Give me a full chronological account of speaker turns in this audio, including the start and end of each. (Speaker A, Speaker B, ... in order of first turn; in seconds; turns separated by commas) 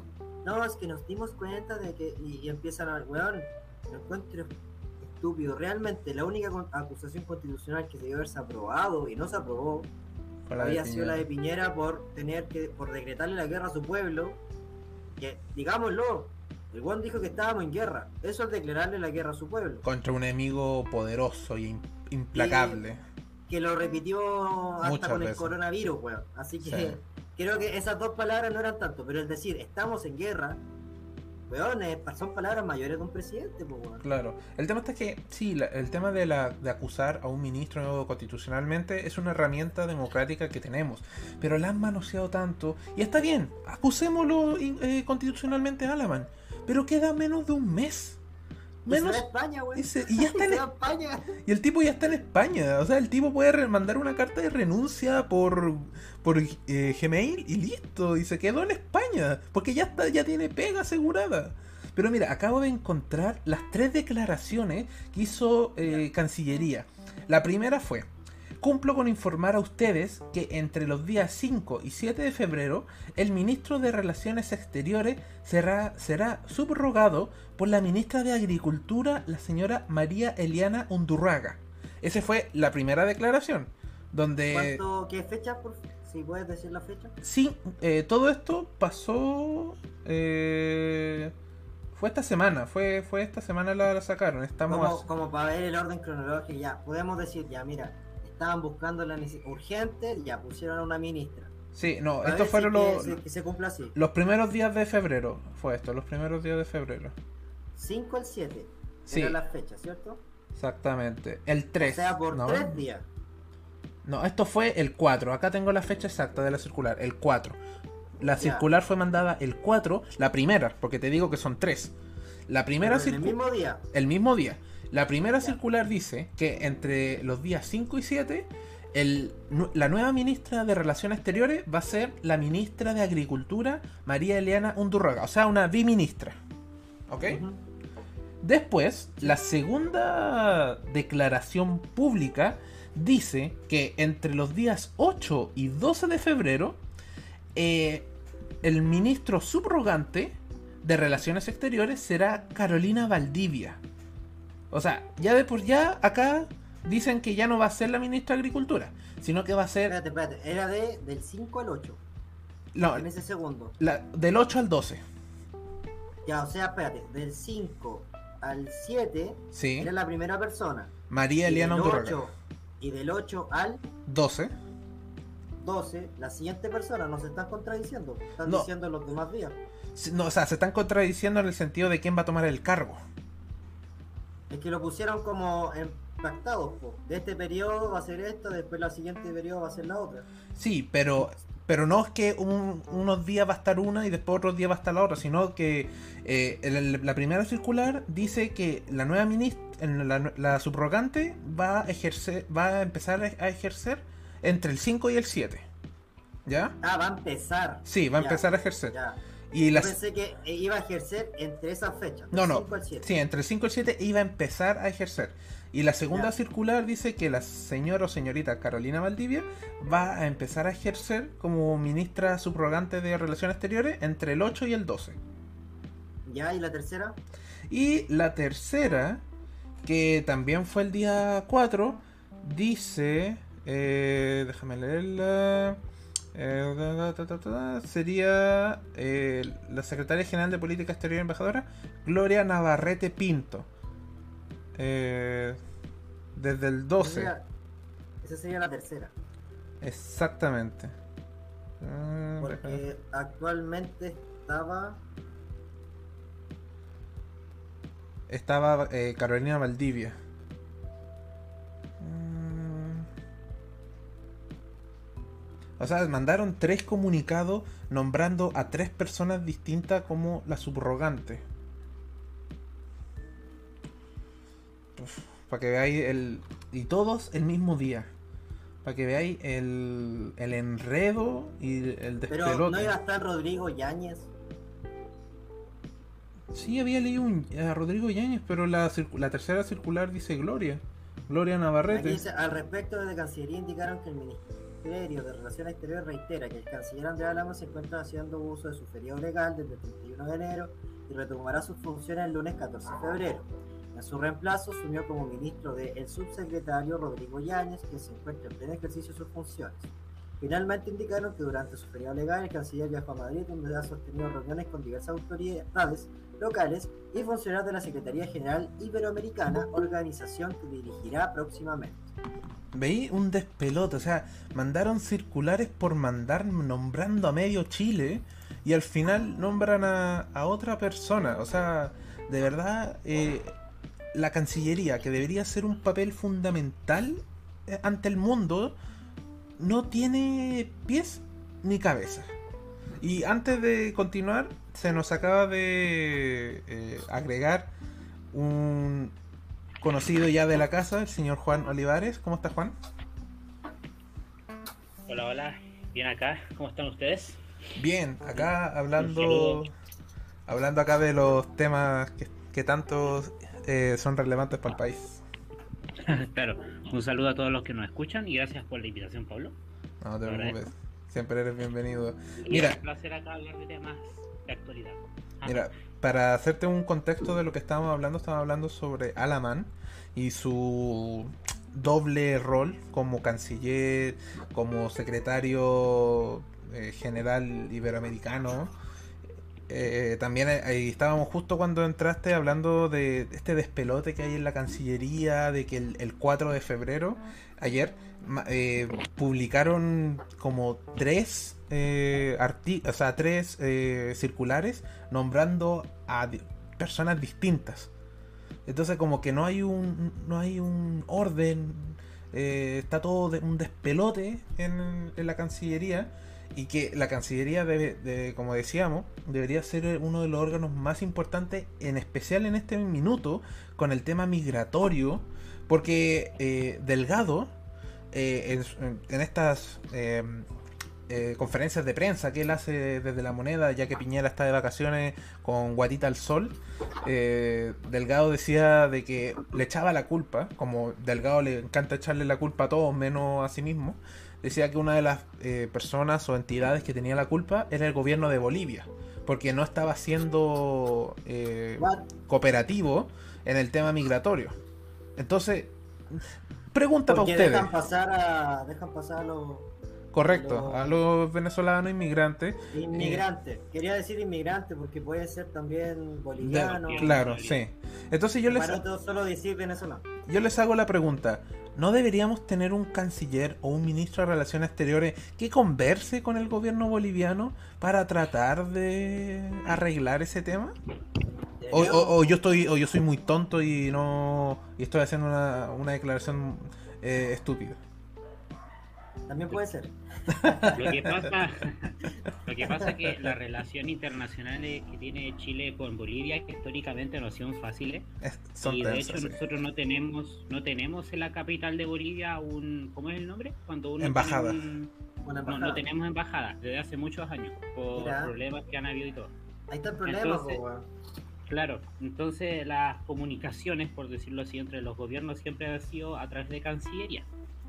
Speaker A: 0.4-9.9, Speaker B: 10.5-11.3, Speaker A: 10.6-14.4, Speaker A: 15.2-19.8, Speaker B: 19.8-23.0, Speaker A: 22.4-22.8, Speaker A: 23.5-30.6, Speaker B: 24.8-25.6, Speaker B: 26.6-27.0, Speaker A: 31.5-34.0, Speaker B: 34.0-48.2, Speaker B: 48.9-50.7, Speaker A: 48.9-51.3, Speaker B: 51.4-68.1, Speaker B: 68.6-84.8, Speaker A: 84.5-87.2, Speaker B: 87.2-91.3, Speaker B: 91.9-95.1, Speaker A: 94.7-101.5, Speaker B: 101.7-103.2, Speaker A: 102.2-104.0, Speaker B: 104.0-107.2, Speaker A: 107.8-110.2, Speaker B: 109.1-109.4, Speaker B: 110.5-112.8, Speaker A: 111.8-113.1, Speaker B: 114.0-117.6, Speaker B: 118.2-121.9, Speaker A: 118.3-118.7, Speaker B: 122.5-123.4, Speaker A: 122.8-123.8, Speaker B: 123.9-136.4, Speaker B: 137.1-137.4, Speaker A: 137.3-137.6, Speaker B: 138.4-146.8, Speaker B: 147.6-148.1, Speaker B: 148.6-153.8, Speaker B: 154.7-160.0, Speaker A: 159.9-162.0, Speaker B: 162.7-163.1, Speaker A: 162.9-163.7, Speaker B: 163.8-165.0, Speaker A: 166.3-173.8, Speaker B: 169.5-169.9, Speaker B: 171.1-172.2, Speaker B: 174.1-174.5, Speaker A: 175.6-179.6, Speaker B: 178.4-178.7, Speaker B: 179.9-183.0, Speaker A: 184.5-190.3, Speaker B: 190.6-205.7, Speaker B: 206.5-206.8, Speaker A: 206.8-209.2, Speaker B: 207.9-209.0, Speaker B: 209.5-210.0, Speaker A: 209.7-213.1, Speaker B: 212.3-225.2, Speaker A: 226.3-227.2, Speaker B: 227.7-229.2, Speaker B: 229.8-235.8, Speaker B: 236.3-243.7, Speaker B: 244.8-245.6, Speaker B: 246.4-247.3, Speaker A: 247.0-247.4, Speaker A: 248.2-249.1, Speaker B: 249.8-251.0, Speaker B: 251.8-252.8, Speaker A: 252.4-255.0, Speaker B: 258.3-260.2, Speaker B: 262.0-263.1, Speaker B: 265.8-271.4, Speaker B: 275.0-278.1, Speaker B: 278.8-282.9, Speaker A: 282.3-284.3, Speaker B: 286.5-292.2, Speaker A: 291.9-322.1, Speaker B: 322.7-333.5, Speaker B: 334.1-338.8, Speaker B: 339.6-342.3, Speaker B: 343.0-347.7, Speaker B: 348.3-349.2, Speaker B: 349.8-352.8, Speaker C: 355.1-357.4, Speaker B: 357.8-359.7, Speaker C: 358.3-359.6, Speaker B: 360.5-365.2, Speaker C: 366.0-369.6, Speaker B: 370.0-372.8, Speaker C: 370.2-370.6, Speaker C: 372.4-375.7, Speaker B: 375.4-388.7, Speaker B: 389.7-407.9, Speaker B: 408.7-427.5, Speaker B: 428.1-430.5, Speaker B: 431.1-454.6, Speaker A: 451.8-452.1, Speaker B: 455.2-457.7, Speaker A: 457.1-459.7, Speaker B: 460.1-463.3, Speaker A: 460.3-460.9, Speaker A: 462.7-467.1, Speaker B: 466.4-468.8, Speaker C: 466.6-467.6, Speaker A: 468.5-470.0, Speaker B: 470.3-480.8, Speaker A: 481.6-482.2, Speaker B: 481.7-487.8, Speaker A: 489.3-489.9, Speaker B: 490.3-491.3, Speaker C: 490.8-498.1, Speaker B: 493.1-493.3, Speaker B: 498.2-499.4, Speaker C: 498.6-504.9, Speaker B: 504.0-504.6, Speaker A: 505.2-505.8, Speaker C: 505.5-509.3, Speaker A: 507.9-508.3, Speaker A: 509.7-510.9, Speaker C: 510.1-510.6, Speaker C: 511.5-517.3